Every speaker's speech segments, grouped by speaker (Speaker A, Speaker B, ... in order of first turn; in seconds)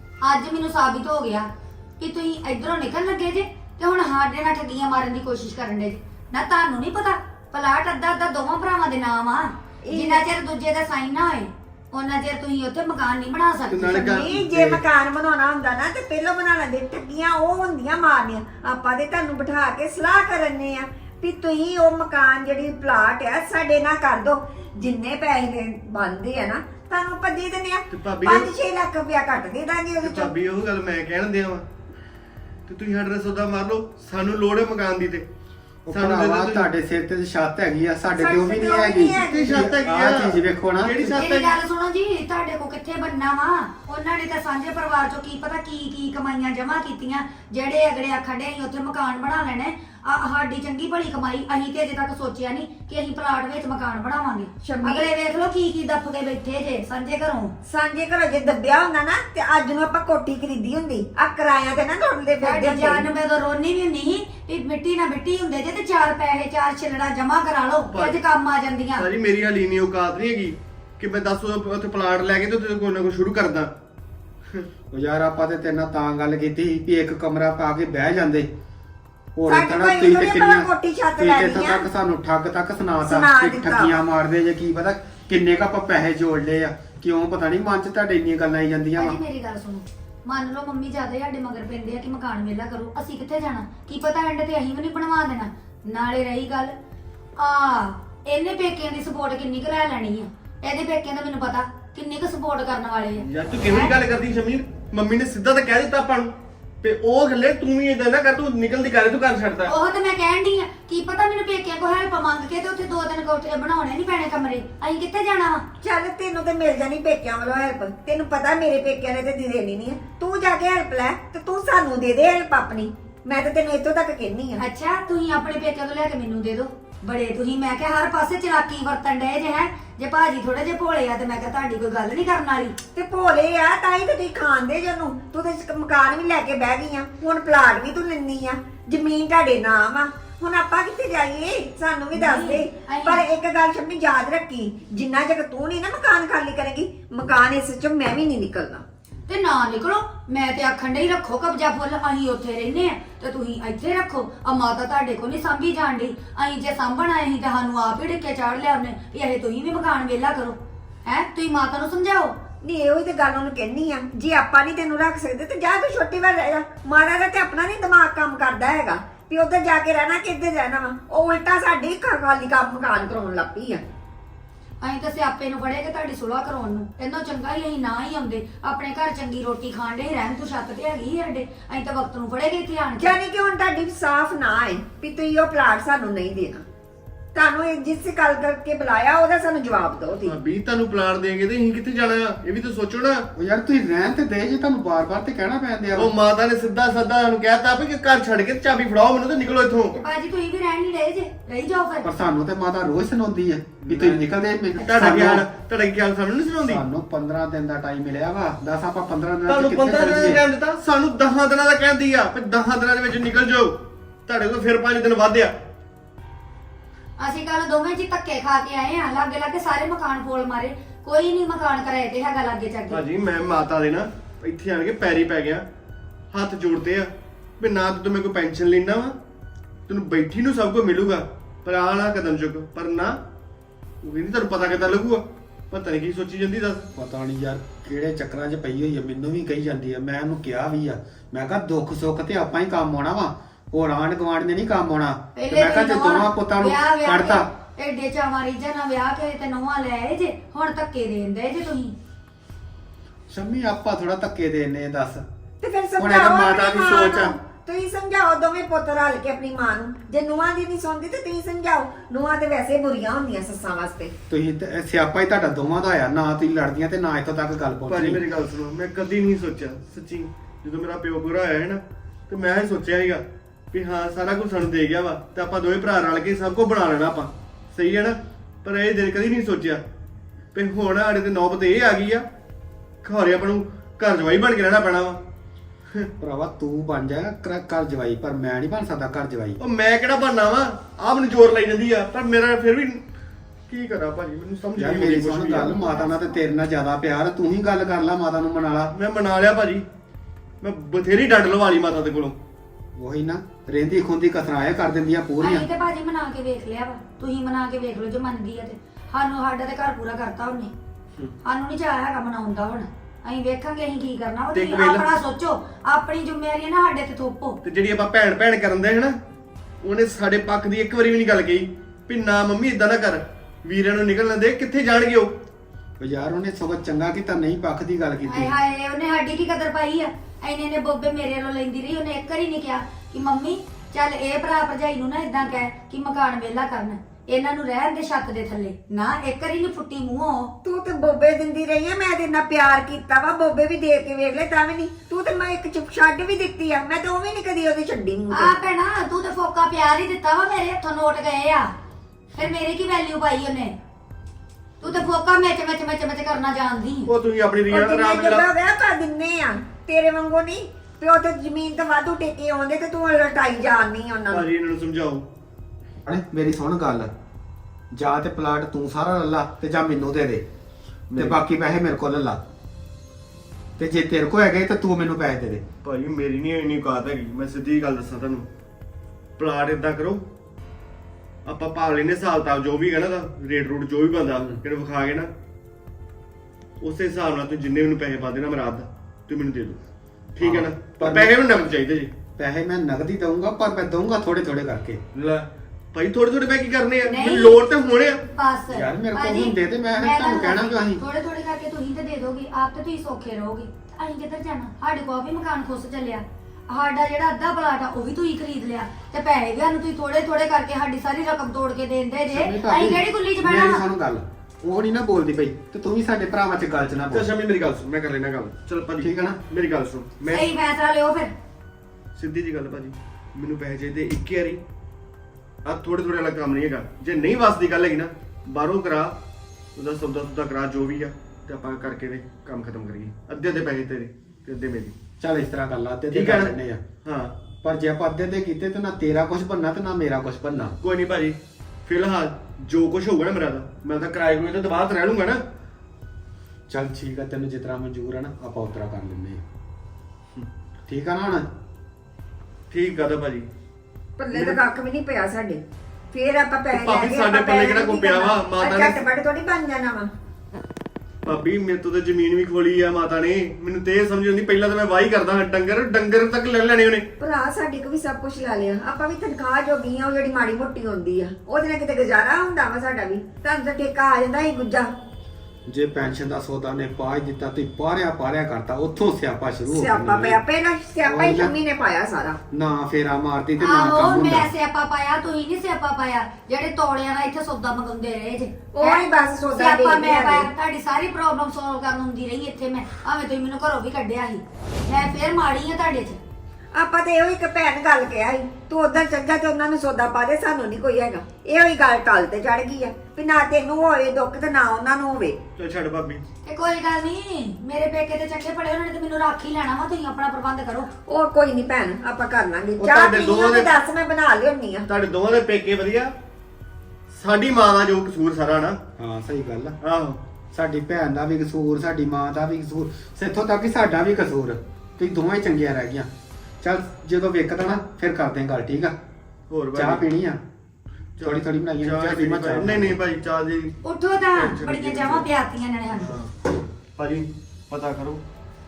Speaker A: 0.2-14.2, 41.1-57.5, 62.4-69.1, 89.0-96.8, 97.4-104.0, 109.7-115.7, 124.6-132.8, 142.1-143.2, 149.3-162.4, 174.8-183.2, 199.9-202.1, 204.9-205.1, 217.2-223.0, 245.4-251.9, 295.4-296.4, 305.4-310.7, 311.4-317.6, 328.2-340.5, 348.3-351.7, 352.4-353.8, 354.8-357.1, 397.1-397.6, 398.3-413.9, 420.3-421.3, 483.6-496.2, 506.4-510.9, 533.8-536.1
Speaker B: 9.8-10.3, 13.7-30.3, 38.1-39.7, 54.6-55.1, 57.6-63.1, 79.5-81.9, 83.0-83.9, 115.8-124.6, 132.9-148.8, 162.6-173.8, 183.0-186.7, 187.3-190.3, 255.6-264.1, 340.6-348.5, 357.7-364.5, 454.2-455.6, 456.1-460.1, 467.2-474.9, 479.7-482.4, 488.7-490.5, 496.7-505.4, 511.1-514.9
Speaker C: 13.7-14.8, 27.9-28.5, 30.0-31.7, 32.7-35.3, 35.9-36.7, 39.2-41.6, 67.9-68.2, 69.0-73.7, 103.2-106.3, 106.8-109.8, 190.2-193.3, 196.0-199.9, 203.9-204.2, 204.8-206.8, 209.5-215.6, 222.9-225.7, 226.3-229.2, 229.9-233.2, 234.0-236.9, 267.9-279.8, 280.5-282.2, 283.0-285.2, 289.6-293.0, 293.7-295.7, 298.9-299.9, 300.6-302.4, 314.5-315.1, 317.6-319.2, 319.8-325.3, 357.1-358.5, 364.3-365.3, 371.1-371.4, 375.8-378.5, 379.4-380.2, 381.4-385.3, 386.8-389.8, 390.4-392.1, 395.1-398.2, 417.1-420.5, 422.1-424.6, 425.6-429.2, 429.8-434.9, 436.1-436.5, 437.0-437.4, 440.8-445.4, 452.7-453.5, 454.3-454.6, 456.7-459.0, 461.2-467.1, 505.6-506.2, 512.8-513.7, 514.9-516.1, 517.1-518.8, 519.8-520.2, 529.5-530.0, 531.2-533.8, 534.3-535.3, 536.0-536.3, 537.0-538.2
Speaker D: 35.9-41.2, 74.9-78.5, 79.4-89.2, 193.4-196.1, 202.0-205.4, 206.7-210.4, 237.0-247.5, 253.3-255.2, 256.0-257.4, 264.3-268.2, 286.2-289.6, 294.8-298.9, 303.0-305.7, 326.0-328.5, 366.1-367.1, 367.9-370.4, 371.2-372.4, 373.8-375.6, 390.4-391.4, 392.4-395.0, 398.7-401.0, 412.3-417.3, 419.0-419.4, 435.2-436.8, 437.6-440.8, 446.7-449.4, 450.9-451.5, 475.7-480.4, 481.0-481.5, 482.5-484.5, 519.0-519.8, 520.5-526.1, 526.6-529.0, 529.8-530.4, 531.2-533.0